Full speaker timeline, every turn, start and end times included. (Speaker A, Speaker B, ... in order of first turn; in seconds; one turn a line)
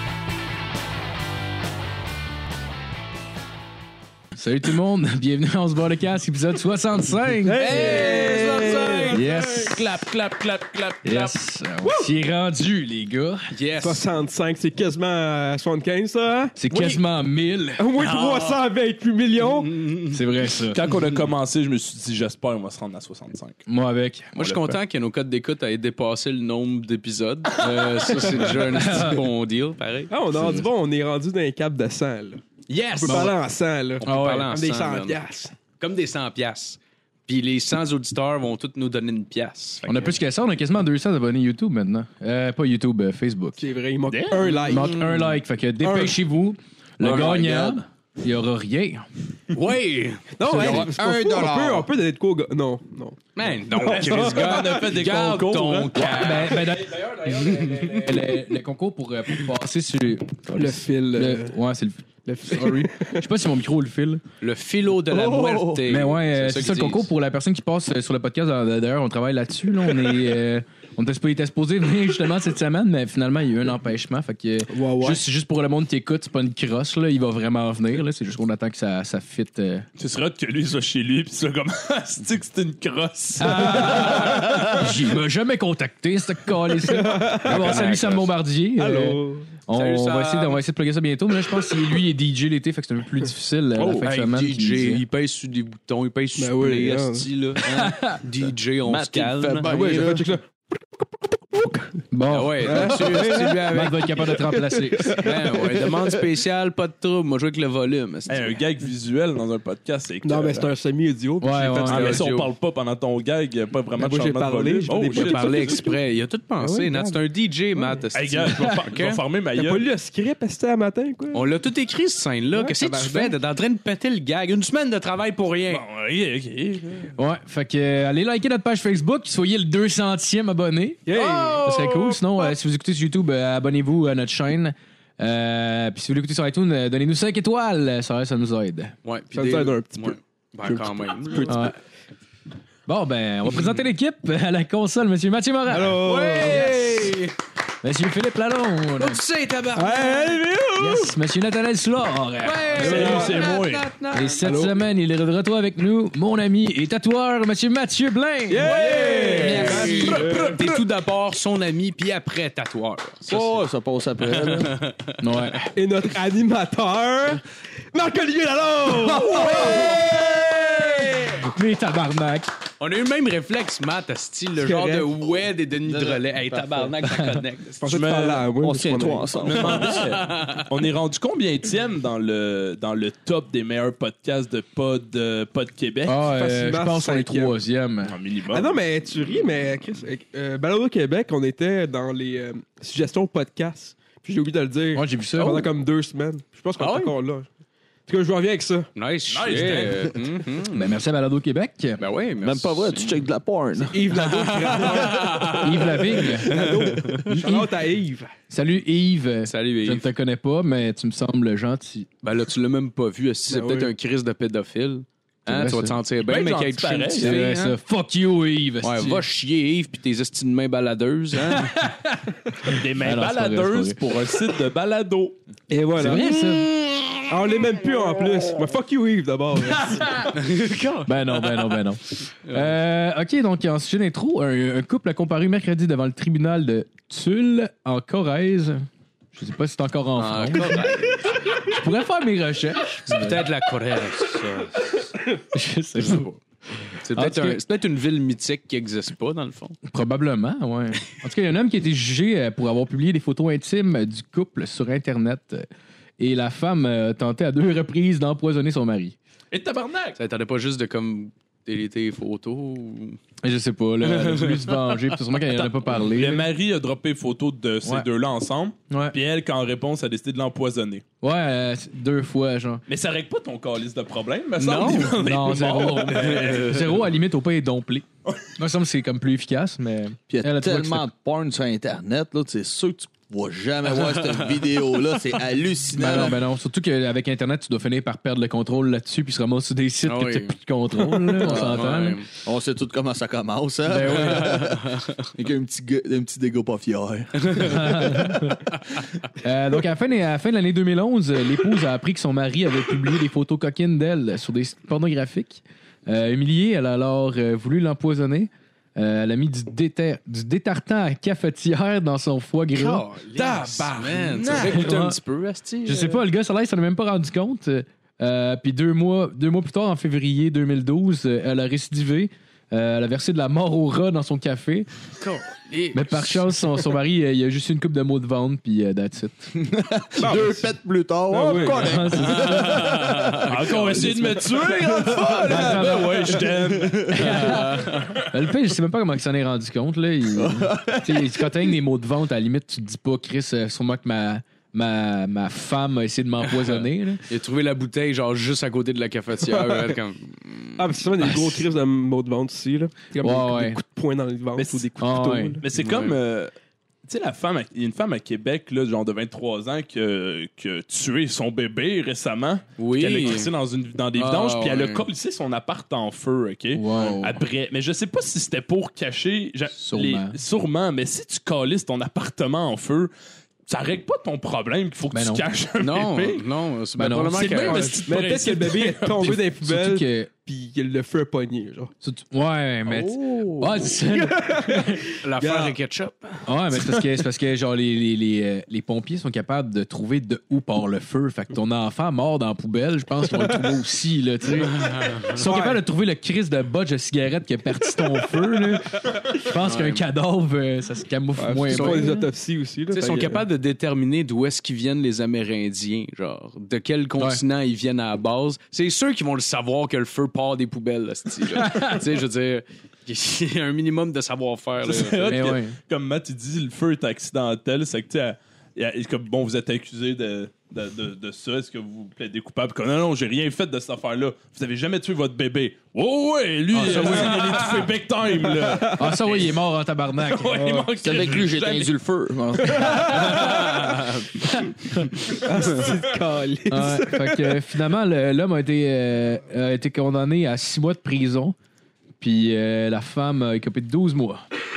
Speaker A: 4.3-8.2
Speaker B: 7.4-9.2
Speaker C: 7.6-9.2
Speaker D: 8.1-11.3
Speaker A: 9.1-9.8
Speaker A: 11.0-13.4
Speaker B: 11.8-12.1
Speaker C: 13.5-14.0
Speaker B: 13.8-16.5
Speaker A: 16.6-17.9
Speaker D: 16.7-17.0
Speaker B: 17.8-19.8
Speaker C: 18.0-18.5
Speaker D: 19.4-23.6
Speaker A: 20.1-20.8
Speaker A: 23.7-24.4
Speaker C: 24.4-30.1
Speaker D: 24.4-24.7
Speaker B: 28.1-28.6
Speaker A: 28.6-29.2
Speaker B: 30.1-32.4
Speaker A: 30.3-30.7
Speaker C: 32.7-33.3
Speaker B: 32.9-35.5
Speaker A: 33.0-33.3
Speaker C: 34.0-35.2
Speaker A: 34.1-34.5
Speaker C: 35.8-40.1
Speaker A: 39.8-43.6
Speaker B: 43.6-45.0
Speaker D: 44.0-44.6
Speaker A: 44.7-49.0
Speaker C: 45.0-45.3
Speaker D: 47.0-47.4
Speaker E: 47.1-47.7
Speaker C: 49.5-50.3
Speaker B: 50.4-53.2
Speaker E: 50.5-51.9
Speaker C: 53.4-58.4
Speaker D: 53.8-56.5
Speaker B: 53.8-54.8
Speaker A: 56.0-64.2
Speaker B: 60.5-61.5
Speaker B: 62.2-63.2
Speaker C: 64.4-67.1
Speaker E: 65.1-65.8
Speaker A: 65.8-79.9
Speaker B: 74.7-75.2
Speaker D: 80.0-84.9
Speaker A: 83.4-95.0
Speaker B: 83.9-84.7
Speaker B: 86.8-88.0
Speaker C: 87.5-88.2
Speaker B: 88.8-89.5
Speaker C: 89.7-90.6
Speaker D: 93.8-94.1
Speaker C: 94.0-99.7
Speaker B: 96.4-97.3
Speaker A: 97.7-98.2
Speaker D: 98.8-99.7
Speaker E: 99.6-100.3
Speaker B: 99.6-100.4
Speaker B: 101.5-101.8
Speaker A: 102.1-105.3
Speaker C: 102.3-104.3
Speaker B: 102.6-105.9
Speaker C: 105.1-108.6
Speaker D: 108.3-110.7
Speaker B: 110.2-112.2
Speaker A: 111.4-112.2
Speaker C: 111.8-112.5
Speaker D: 111.9-115.8
Speaker B: 114.0-116.0
Speaker C: 115.1-119.2
Speaker A: 116.6-117.1
Speaker B: 116.7-117.0
Speaker B: 117.7-118.0
Speaker D: 118.1-119.8
Speaker B: 119.5-121.5
Speaker C: 121.3-125.8
Speaker B: 122.5-123.3
Speaker D: 125.7-127.1
Speaker A: 127.2-138.9
Speaker B: 131.1-132.4
Speaker C: 131.1-131.6
Speaker C: 139.0-141.7
Speaker B: 139.3-141.7
Speaker A: 141.4-141.7
Speaker A: 142.9-146.1
Speaker B: 145.7-147.2
Speaker C: 146.0-147.3
Speaker A: 147.8-149.2
Speaker C: 149.0-150.4
Speaker B: 149.7-151.1
Speaker A: 150.8-153.3
Speaker C: 152.4-154.7
Speaker D: 152.8-153.9
Speaker B: 152.8-153.4
Speaker A: 154.1-158.7
Speaker B: 154.4-154.8
Speaker B: 158.5-160.6
Speaker C: 158.6-163.6
Speaker D: 158.8-160.8
Speaker E: 163.3-164.7
Speaker C: 164.4-165.2
Speaker A: 165.2-165.7
Speaker B: 165.7-167.4
Speaker B: 167.9-171.4
Speaker E: 169.2-170.1
Speaker C: 169.3-170.0
Speaker A: 171.5-172.5
Speaker C: 172.8-177.8
Speaker B: 174.6-175.1
Speaker E: 175.8-176.9
Speaker A: 177.1-177.4
Speaker D: 177.8-178.5
Speaker B: 177.8-179.4
Speaker E: 178.6-180.2
Speaker D: 179.4-186.2
Speaker C: 179.6-180.7
Speaker A: 186.1-188.1
Speaker B: 186.3-187.6
Speaker D: 188.1-188.7
Speaker B: 188.5-197.5
Speaker A: 194.9-195.7
Speaker C: 196.8-197.1
Speaker B: 198.1-198.9
Speaker C: 198.9-200.9
Speaker D: 199.3-200.1
Speaker A: 200.7-202.0
Speaker C: 202.0-203.2
Speaker E: 202.4-204.0
Speaker B: 203.8-208.3
Speaker C: 204.1-207.2
Speaker A: 205.6-206.5
Speaker A: 207.2-207.7
Speaker A: 208.5-212.1
Speaker C: 209.4-210.0
Speaker C: 212.2-217.7
Speaker B: 213.5-213.9
Speaker A: 215.5-215.9
Speaker D: 216.2-217.5
Speaker A: 217.2-219.2
Speaker C: 218.8-221.8
Speaker A: 221.5-224.0
Speaker D: 222.6-225.4
Speaker B: 225.7-230.3
Speaker A: 226.0-226.7
Speaker A: 229.7-230.3
Speaker C: 230.3-231.8
Speaker A: 231.1-243.4
Speaker C: 232.4-232.7
Speaker C: 240.2-241.4
Speaker C: 243.1-245.0
Speaker A: 245.5-246.3
Speaker C: 246.0-246.4
Speaker A: 246.9-247.6
Speaker C: 247.0-249.8
Speaker A: 249.9-255.7
Speaker A: 256.2-259.1
Speaker D: 259.5-260.2
Speaker C: 260.2-263.2
Speaker A: 263.4-266.5
Speaker C: 264.0-265.7
Speaker D: 266.1-271.0
Speaker A: 268.9-269.2
Speaker A: 271.2-272.8
Speaker D: 272.9-276.9
Speaker C: 274.6-275.2
Speaker A: 275.2-278.0
Speaker C: 276.0-277.0
Speaker A: 278.6-281.1
Speaker E: 280.3-286.4
Speaker A: 285.9-292.2
Speaker C: 290.0-292.3
Speaker E: 291.4-291.8
Speaker E: 292.4-298.0
Speaker A: 293.9-294.6
Speaker C: 294.4-295.0
Speaker A: 297.6-298.6
Speaker A: 299.4-313.0
Speaker C: 312.8-316.2
Speaker D: 313.3-314.9
Speaker A: 314.5-315.1
Speaker A: 315.9-324.9
Speaker C: 325.2-326.4
Speaker A: 325.9-329.5
Speaker E: 329.6-337.5
Speaker B: 330.2-330.7
Speaker B: 331.3-332.0
Speaker A: 331.5-332.8
Speaker C: 332.3-334.3
Speaker D: 333.4-337.5
Speaker A: 335.5-336.4
Speaker A: 337.1-347.2
Speaker C: 337.4-338.2
Speaker E: 340.3-341.5
Speaker C: 347.3-350.9
Speaker B: 349.4-349.9
Speaker B: 350.8-355.6
Speaker A: 353.2-353.8
Speaker D: 354.6-354.9
Speaker A: 355.0-355.6
Speaker D: 355.6-356.5
Speaker C: 355.7-356.2
Speaker D: 357.0-373.1
Speaker C: 362.8-363.5
Speaker C: 364.2-365.1
Speaker A: 366.7-367.4
Speaker A: 369.8-370.4
Speaker D: 373.7-376.4
Speaker A: 375.1-375.4
Speaker C: 375.8-378.0
Speaker A: 377.0-378.0
Speaker D: 377.3-379.4
Speaker B: 378.0-381.9
Speaker A: 379.6-380.3
Speaker A: 382.0-385.0
Speaker C: 382.9-383.9
Speaker B: 384.0-385.7
Speaker C: 385.2-386.4
Speaker A: 386.4-402.3
Speaker C: 394.6-395.7
Speaker B: 395.4-395.8
Speaker C: 399.5-400.0
Speaker B: 401.4-403.4
Speaker C: 401.7-402.1
Speaker C: 402.9-415.4
Speaker A: 411.5-412.0
Speaker D: 414.8-429.5
Speaker A: 415.3-415.8
Speaker A: 426.7-427.8
Speaker C: 426.8-427.9
Speaker B: 428.6-428.9
Speaker A: 428.9-430.9
Speaker D: 430.2-431.9
Speaker E: 431.0-433.1
Speaker D: 433.2-433.8
Speaker C: 433.4-434.2
Speaker B: 435.3-437.6
Speaker A: 436.7-441.5
Speaker A: 442.2-444.4